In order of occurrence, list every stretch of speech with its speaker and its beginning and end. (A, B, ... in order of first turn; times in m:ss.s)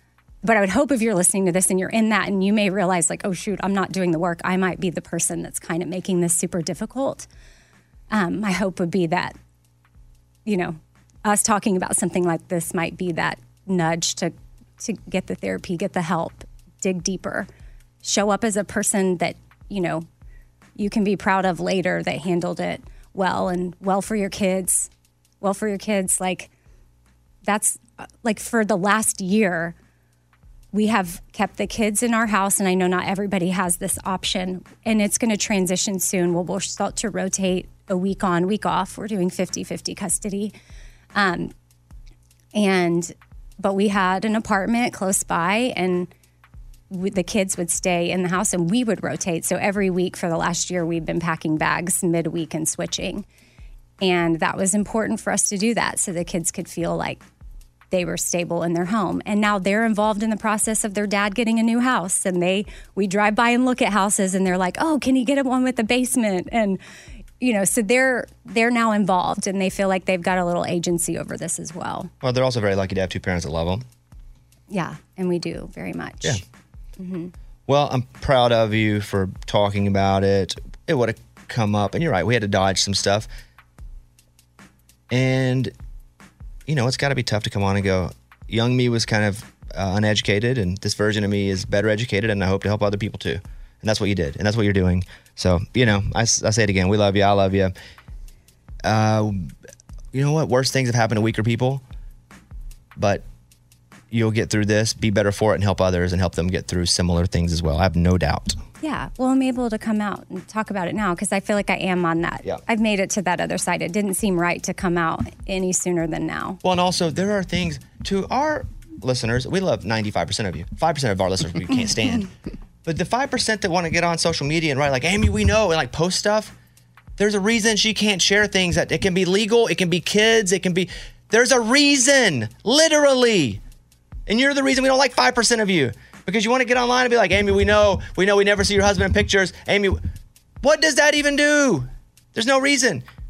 0:00.4-0:07.3 A
0:08.1-0:09.4 A
0:10.5-0:17.5 A
0:18.0-0:20.1 A
0:20.8-0:24.9 A
0:25.4-0:26.5 A
0:27.4-0:29.8 A
0:30.7-0:40.5 A
0:41.1-0:41.5 A
0:42.5-0:46.1 A
0:46.9-0:53.3 A
0:54.0-0:57.2 A
0:57.9-1:06.8 A
1:07.4-1:12.1 A
1:12.2-1:13.8 B
1:14.7-1:16.4 A
1:17.0-1:17.3 A
1:17.7-1:23.3 B
1:25.1-1:25.7 B
1:26.7-1:37.7 B
1:38.8-1:39.5 B
1:40.1-1:41.8 B
1:43.0-1:43.2 B
1:44.1-1:48.6 B
1:48.8-1:56.6 A
1:56.6-2:02.3 B
2:02.8-2:06.5 B
2:07.2-2:13.6 B
2:14.3-2:20.0 B
2:20.6-2:23.0 B